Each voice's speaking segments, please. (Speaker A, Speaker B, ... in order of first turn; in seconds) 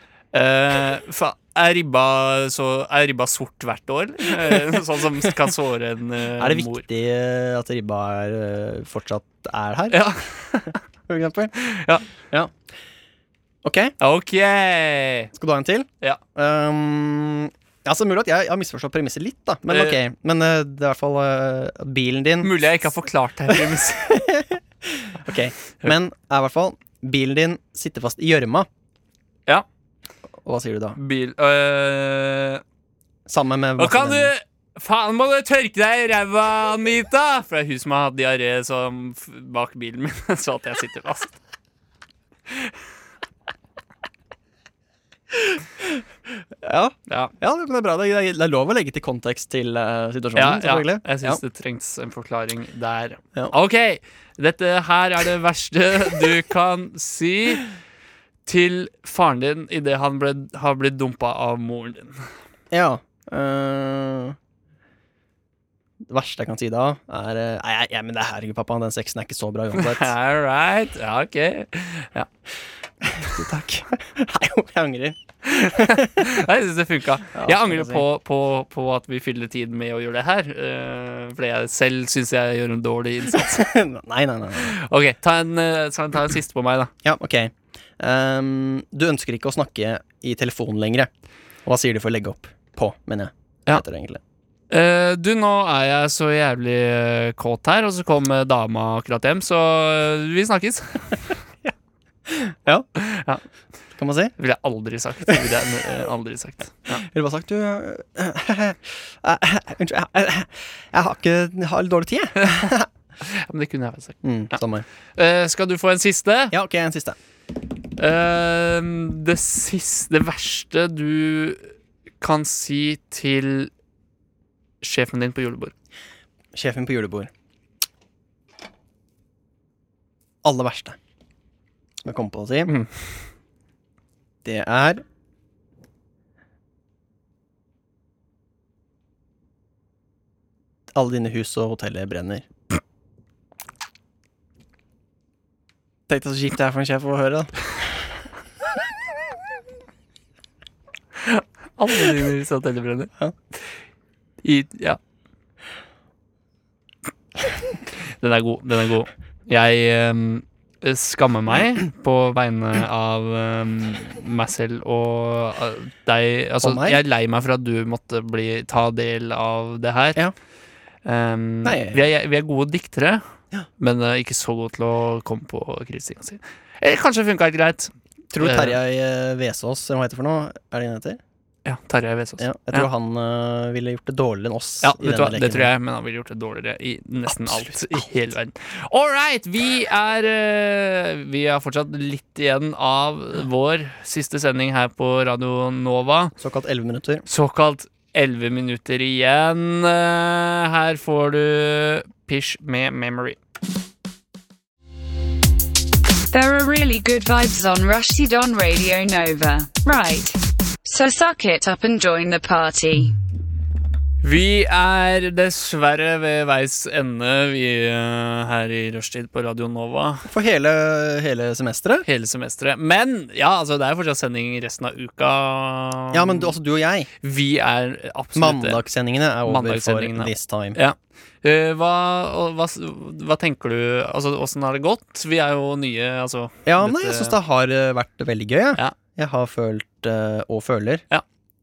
Speaker A: 0.3-6.8, 9.9-10.8, 11.6-12.0, 14.0-15.3, 19.7-20.0, 22.4-24.2, 31.0-32.6, 33.8-41.4, 50.4-57.7, 58.5-62.2, 69.8-72.3, 75.5-83.7, 84.6-86.9, 94.7-101.3, 103.0-103.4, 104.4-107.0, 112.4-112.7, 113.2-114.2, 115.2-116.5, 118.0-123.7, 124.8-125.7, 151.2-153.6, 154.4-155.0, 158.2-170.2, 171.1-173.2, 173.8-178.8, 181.7-182.9, 184.8-196.3, 197.3-203.4, 214.2-220.3, 222.1-226.5, 227.2-228.8, 229.4-237.4
Speaker B: 6.4-10.0, 11.1-11.6, 13.6-13.9, 15.4-22.6, 23.5-28.7, 30.4-31.0, 33.3-34.3, 45.5-45.9, 46.6-51.4, 62.7-64.4, 66.1-70.1, 73.0-76.5, 77.3-78.0, 83.3-84.8, 87.0-91.1, 91.7-94.2, 102.3-102.9, 104.0-104.3, 105.3-105.8, 106.9-112.9, 114.2-114.8, 116.5-117.2, 126.5-127.3, 130.4-131.0, 132.1-132.8, 134.4-135.0, 140.9-142.4, 146.1-148.0, 166.6-167.0, 171.6-172.0, 178.3-181.2, 182.4-185.7, 187.3-188.1, 196.4-197.2, 220.3-222.1, 226.1-227.1, 228.3-230.8, 236.7-241.0
Speaker C: 206.3-213.2